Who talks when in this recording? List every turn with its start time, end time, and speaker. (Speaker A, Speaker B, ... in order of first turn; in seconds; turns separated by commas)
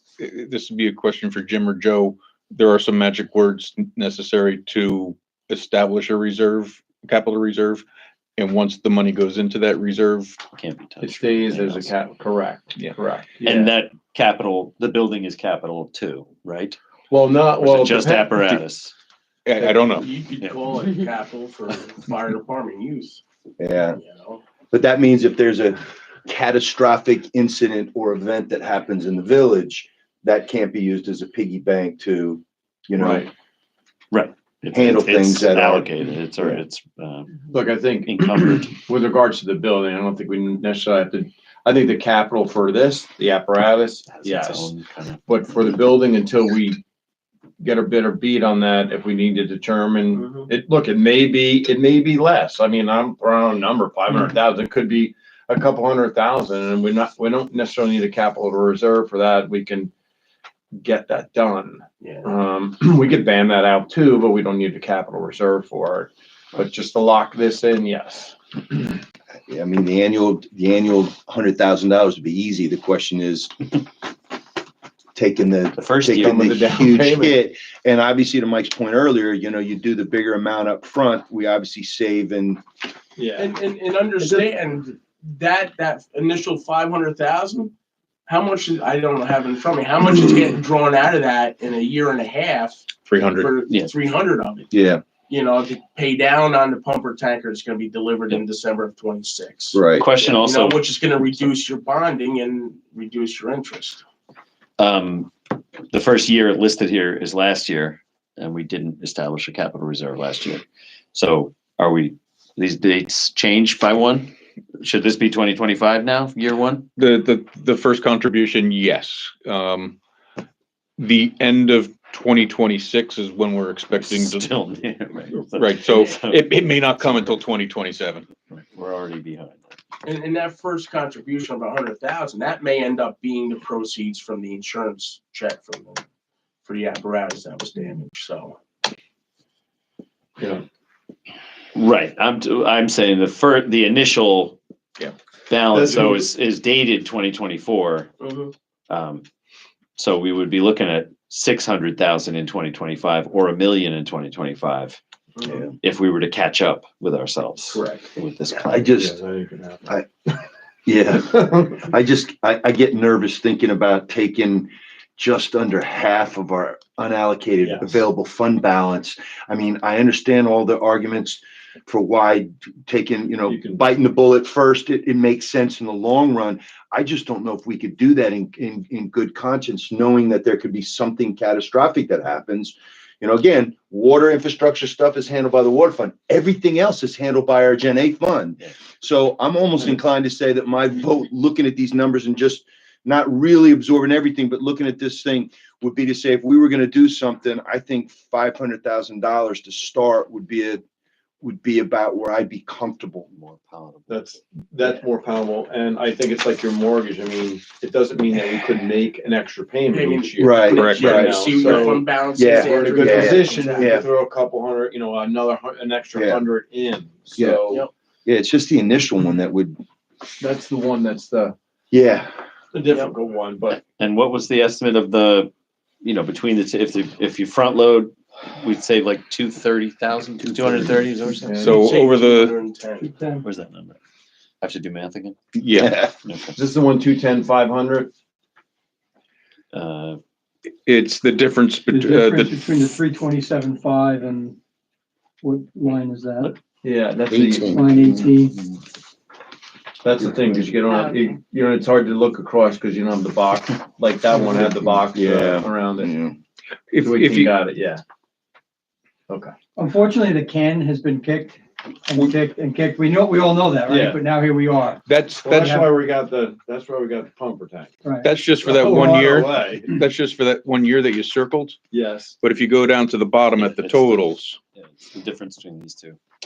Speaker A: 0.2-7.8, Speaker A: 8.4-10.4, Speaker B: 10.5-11.9, Speaker C: 11.0-13.7, Speaker B: 13.4-16.8, Speaker C: 17.1-18.4, Speaker B: 17.6-18.9, Speaker A: 19.4-20.1, Speaker C: 19.6-19.8, Speaker D: 19.9-23.2, Speaker E: 23.6-24.0, Speaker D: 23.9-24.4, Speaker E: 24.7-33.3, Speaker C: 33.0-33.3, Speaker B: 34.1-37.5, Speaker E: 34.7-35.9, Speaker C: 37.5-44.7, Speaker B: 38.0-38.7, Speaker B: 44.2-45.2, Speaker C: 45.2-46.8, Speaker C: 47.6-59.9, Speaker D: 50.1-50.5, Speaker C: 60.7-68.9, Speaker D: 62.0-62.3, Speaker E: 69.5-73.5, Speaker E: 75.1-82.6, Speaker B: 75.8-76.5, Speaker C: 76.2-77.4, Speaker C: 83.2-83.5, Speaker D: 83.4-87.7, Speaker D: 88.3-94.7, Speaker A: 93.1-93.5, Speaker E: 94.7-95.0, Speaker D: 95.3-104.0, Speaker E: 99.7-100.1, Speaker B: 100.0-100.8, Speaker B: 104.8-105.3, Speaker B: 105.9-116.9, Speaker A: 117.0-120.0, Speaker A: 121.0-124.5, Speaker B: 124.0-126.5, Speaker A: 125.5-128.2, Speaker B: 128.5-129.7, Speaker D: 130.0-136.0, Speaker D: 136.6-138.6, Speaker C: 140.4-140.6, Speaker B: 141.7-144.6, Speaker B: 145.5-148.1, Speaker C: 145.7-146.2, Speaker D: 148.2-148.5, Speaker B: 148.9-149.2, Speaker B: 150.0-155.0, Speaker D: 155.4-155.6, Speaker B: 155.8-159.0, Speaker C: 157.7-158.1, Speaker E: 158.6-159.1, Speaker C: 159.0-159.9, Speaker E: 160.8-200.8, Speaker C: 161.3-161.7, Speaker C: 167.6-168.0, Speaker C: 173.5-173.8, Speaker E: 201.4-203.3, Speaker B: 203.3-204.2, Speaker C: 204.1-217.8, Speaker D: 209.9-214.1, Speaker E: 210.4-214.1, Speaker A: 210.7-211.4, Speaker E: 216.1-216.4, Speaker E: 217.3-217.6, Speaker E: 218.2-219.8, Speaker C: 220.4-221.5, Speaker E: 221.9-222.3, Speaker C: 222.7-223.8, Speaker B: 223.7-225.5, Speaker B: 226.0-231.1, Speaker D: 230.5-233.2, Speaker C: 231.4-231.8, Speaker A: 231.5-232.5, Speaker F: 233.0-233.4, Speaker B: 233.4-234.0, Speaker B: 234.6-235.4, Speaker A: 235.6-236.0, Speaker E: 235.8-236.1, Speaker B: 236.2-236.6, Speaker C: 236.5-238.1, Speaker B: 239.7-240.2, Speaker A: 240.8-242.6, Speaker F: 241.9-244.6, Speaker F: 245.4-246.6, Speaker C: 246.8-247.8, Speaker E: 247.3-248.2, Speaker F: 247.6-248.6, Speaker C: 250.0-256.1, Speaker E: 254.5-256.3, Speaker A: 256.9-257.6, Speaker C: 257.0-258.0, Speaker C: 259.3-259.5, Speaker F: 259.8-265.0, Speaker C: 263.9-264.2, Speaker A: 265.1-265.9, Speaker C: 265.4-267.9, Speaker F: 265.6-265.9, Speaker F: 268.0-269.5, Speaker A: 268.2-271.8, Speaker C: 268.6-269.9, Speaker C: 271.9-272.4, Speaker A: 272.4-274.6, Speaker B: 273.6-276.2